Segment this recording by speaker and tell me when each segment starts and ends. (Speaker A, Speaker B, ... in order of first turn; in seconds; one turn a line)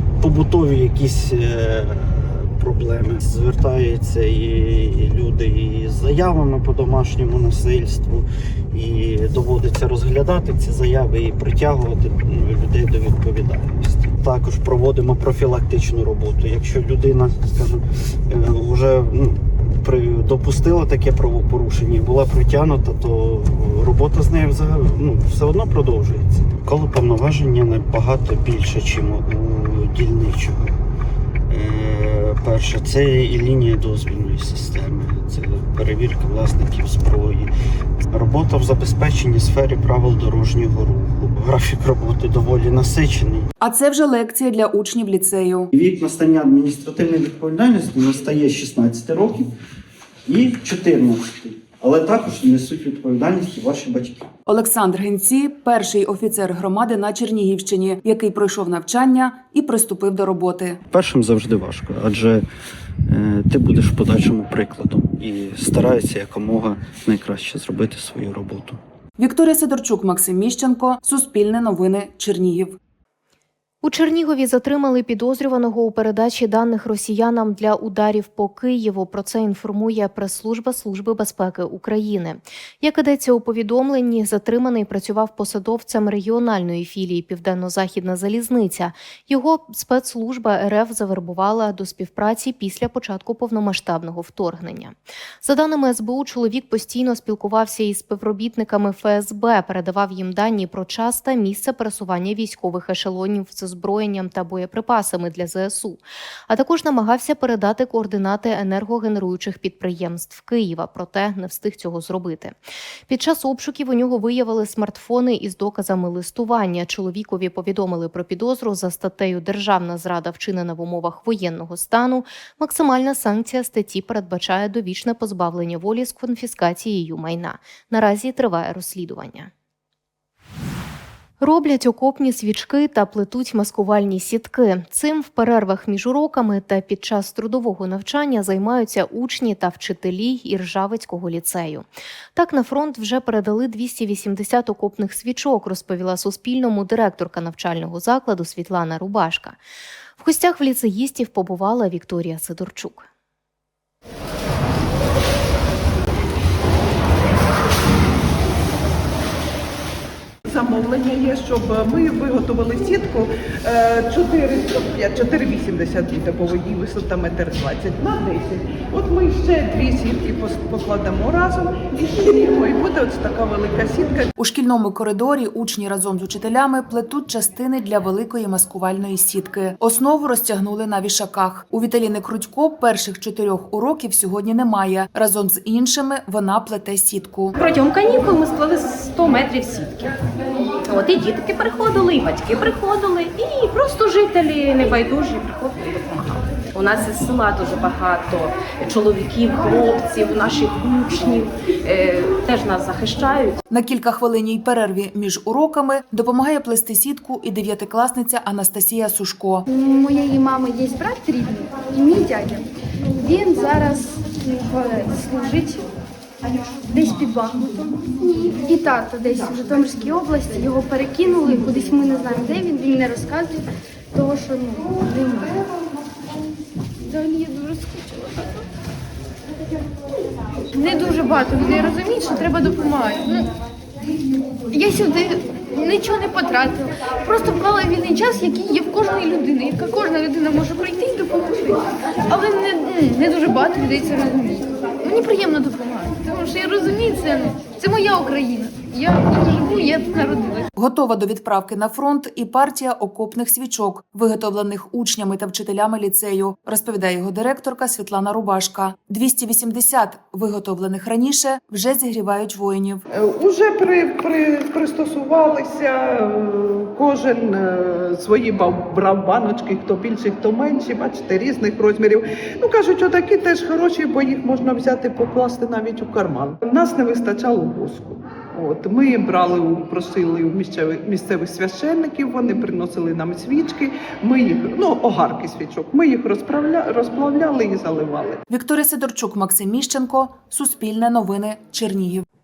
Speaker A: 0.2-30.8
Speaker A: 31.5-37.5
Speaker A: 38.1-43.5
Speaker B: 43.6-45.7
Speaker A: 45.7-49.5
Speaker A: 50.3-54.2
Speaker B: 54.5-60.8
Speaker A: 60.9-62.5
Speaker A: 63.1-68.8
Speaker B: 69.2-72.8
Speaker C: 73.8-112.6
Speaker C: 113.1-129.5
Speaker C: 131.4-149.6
Speaker C: 150.2-153.1
Speaker D: 161.0-163.1
Speaker D: 163.7-168.4
Speaker D: 169.7-171.5
Speaker D: 172.3-174.2
Speaker B: 174.4-187.6
Speaker E: 187.6-190.1
Speaker E: 190.8-203.6
Speaker B: 203.7-209.6
Speaker F: 209.7-210.3
Speaker F: 210.9-212.6
Speaker F: 213.2-215.9
Speaker F: 216.9-223.6
Speaker F: 224.2-225.6
Speaker F: 227.1-228.6
Speaker F: 230.7-233.5
Speaker F: 234.7-250.7
Speaker B: 250.8-263.0
Speaker D: 263.4-265.9
Speaker D: 267.0-278.0
Speaker D: 278.7-288.3
Speaker B: 288.5-292.2